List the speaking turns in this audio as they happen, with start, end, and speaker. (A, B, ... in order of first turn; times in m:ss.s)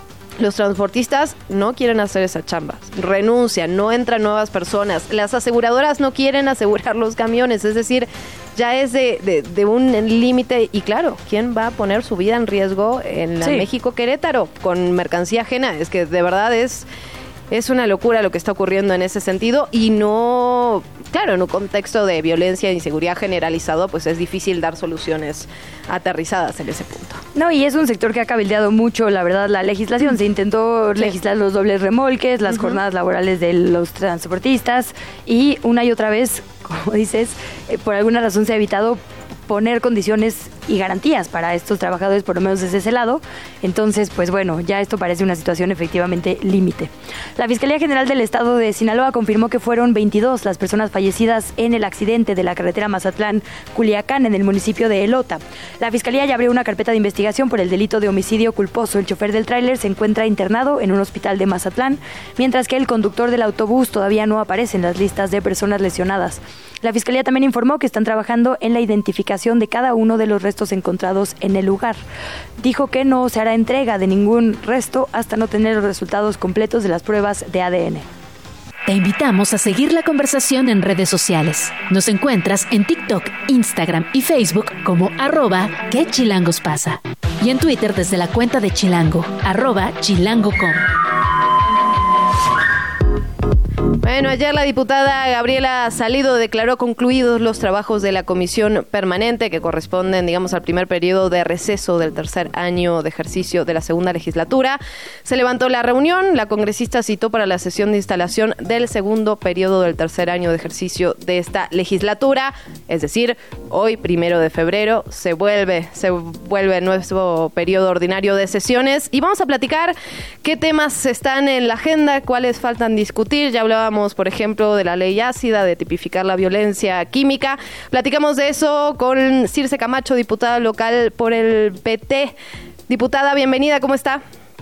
0:00.4-0:16.9 A
0:17.5-0:27.2 A
0:27.3-1:12.0 B
0:32.5-0:32.8 A
1:12.6-1:18.0 B
1:18.8-1:30.8 C
1:34.0-2:12.3 A
2:12.9-2:14.2 A